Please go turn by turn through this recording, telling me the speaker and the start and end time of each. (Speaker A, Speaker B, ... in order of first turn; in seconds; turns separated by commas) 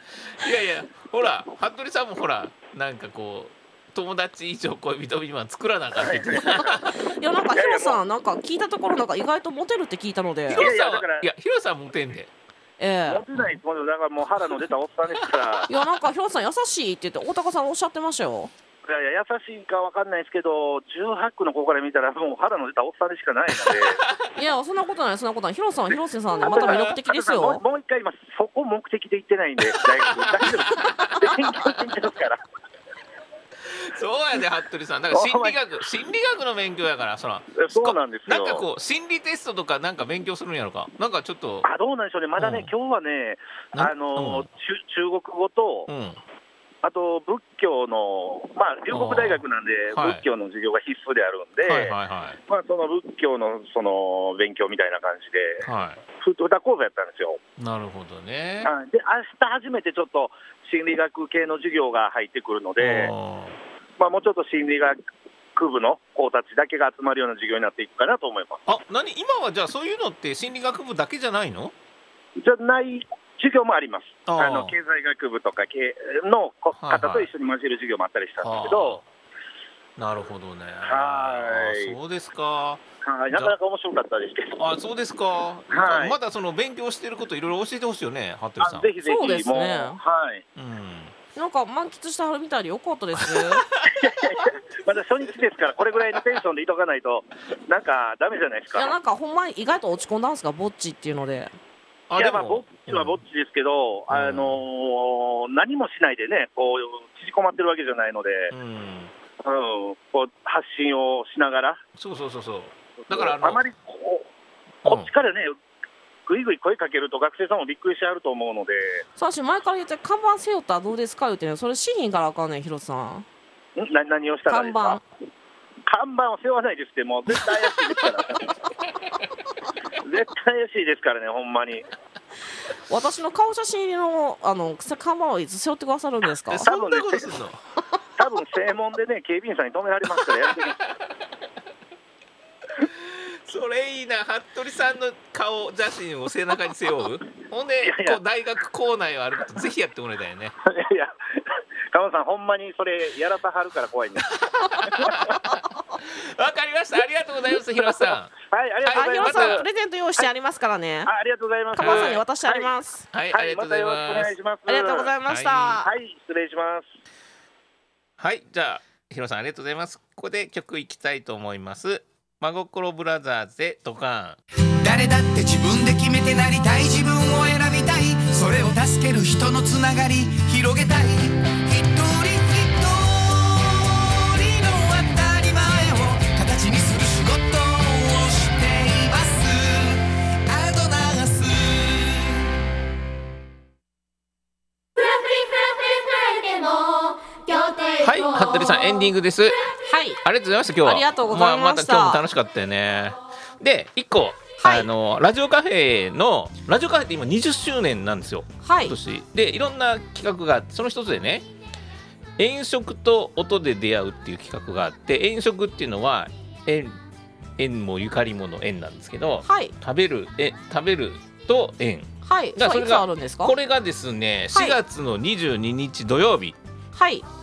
Speaker A: 0.2-6.9, Speaker B: 6.0-6.8, Speaker C: 6.7-10.7, Speaker B: 7.5-8.0, Speaker A: 10.5-12.3, Speaker B: 10.6-11.3, Speaker C: 12.8-13.2, Speaker B: 13.1-15.7, Speaker A: 15.2-15.7, Speaker C: 15.7-18.5, Speaker B: 18.9-24.0, Speaker A: 23.6-24.3, Speaker C: 24.3-27.6, Speaker B: 26.4-32.4, Speaker A: 26.4-27.0, Speaker A: 29.6-31.7, Speaker A: 33.6-41.7, Speaker B: 35.1-35.6, Speaker B: 37.5-38.6, Speaker B: 41.6-45.9, Speaker A: 42.4-42.7, Speaker A: 43.7-44.5, Speaker A: 45.9-46.2, Speaker B: 46.8-51.9, Speaker A: 48.9-49.4, Speaker A: 49.9-50.2, Speaker A: 51.6-52.4, Speaker B: 52.5-55.6, Speaker A: 55.6-56.0, Speaker B: 56.2-57.4, Speaker A: 57.6-58.7, Speaker B: 58.6-63.1, Speaker A: 62.8-63.6, Speaker B: 64.0-65.0, Speaker B: 65.5-68.6, Speaker A: 68.7-71.7, Speaker B: 72.4-79.0, Speaker A: 74.3-74.8, Speaker A: 76.8-77.3, Speaker A: 78.4-79.0, Speaker A: 80.0-83.5, Speaker B: 80.8-82.0, Speaker B: 83.0-84.6, Speaker A: 84.6-88.9, Speaker B: 85.7-86.2, Speaker B: 88.6-90.4, Speaker C: 89.0-90.0, Speaker A: 90.5-91.1, Speaker C: 91.3-93.7, Speaker A: 93.2-94.5, Speaker B: 93.8-98.9, Speaker C: 98.7-101.5, Speaker A: 102.1-103.2, Speaker B: 102.2-108.5, Speaker A: 104.1-104.6, Speaker A: 108.5-109.1, Speaker B: 109.4-111.8, Speaker A: 112.0-113.6, Speaker B: 113.1-114.3, Speaker A: 114.8-115.1, Speaker B: 114.8-115.5, Speaker B: 116.3-119.0, Speaker C: 119.2-123.2, Speaker B: 123.8-125.0, Speaker C: 124.5-125.0, Speaker B: 125.8-128.6, Speaker B: 130.0-131.9, Speaker C: 132.9-136.7, Speaker A: 136.5-137.6, Speaker B: 136.6-137.3, Speaker B: 138.2-140.8, Speaker A: 140.1-141.1, Speaker A: 142.8-150.5, Speaker B: 147.8-148.2, Speaker B: 150.6-154.3, Speaker A: 154.3-158.3, Speaker B: 154.8-155.3, Speaker B: 157.7-159.6, Speaker A: 158.8-159.6, Speaker C: 158.9-161.1, Speaker B: 161.1-162.7, Speaker C: 161.7-163.1, Speaker A: 161.8-162.2, Speaker A: 163.1-164.3, Speaker B: 163.3-165.2, Speaker C: 164.7-165.9, Speaker A: 165.2-165.8, Speaker B: 165.8-166.8, Speaker A: 168.2-174.4, Speaker D: 174.8-192.5, Speaker E: 194.9-199.1, Speaker A: 198.0-199.6, Speaker C: 199.8-200.2, Speaker A: 200.2-211.5, Speaker C: 200.8-202.2, Speaker C: 204.6-204.9, Speaker C: 208.6-209.0, Speaker A: 212.4-217.0, Speaker A: 217.6-226.6, Speaker C: 219.4-219.7, Speaker C: 222.2-223.5, Speaker C: 226.9-227.2